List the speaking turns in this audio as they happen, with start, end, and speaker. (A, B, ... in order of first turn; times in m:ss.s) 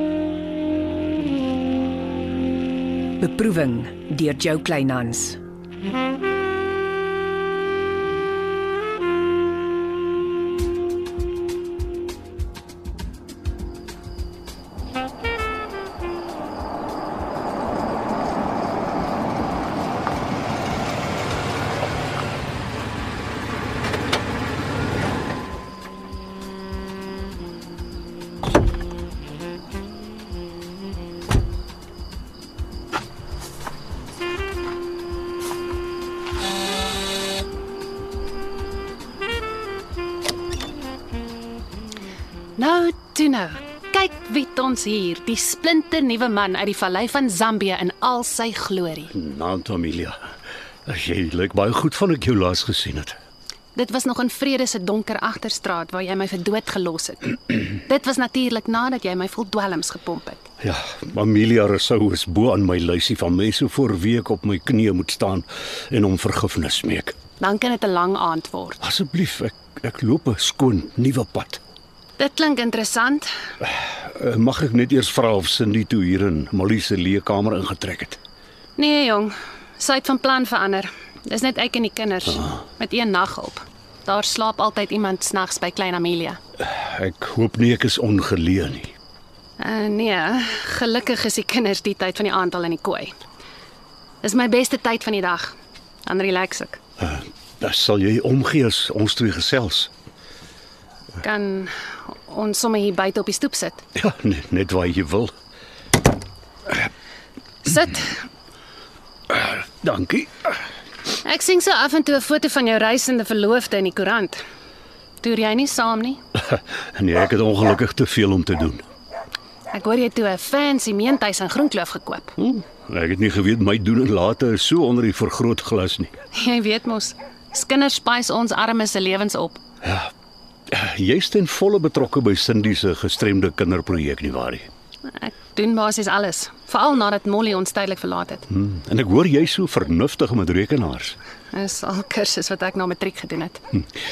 0:03.2-0:05.4 A
0:42.6-0:49.1 B
0:49.1-0:50.2 C
0:50.9-0:53.2 C
0:53.8-1:00.4 B
1:00.6-1:07.1 C
1:07.4-1:08.8 B
1:08.8-1:11.6 C
1:12.2-1:13.3 B
1:13.9-1:18.2 C
1:18.8-1:26.4 B
1:26.6-1:28.9 C
1:29.6-1:33.1 B
1:34.2-1:36.8 B
1:37.0-1:39.9 C
1:41.2-1:43.8 B
1:44.0-1:45.3 C
1:47.7-1:48.2 B
1:49.3-1:50.6 C
1:51.2-1:54.4 B
1:55.2-1:56.2 B
1:56.5-1:58.8 C
1:59.7-2:02.3 B
2:02.4-2:06.1 C
2:06.3-2:09.6 B
2:09.8-2:10.1 C
2:10.7-2:14.7 C
2:15.1-2:18.5 B
2:18.5-2:21.2 C
2:21.5-2:23.6 B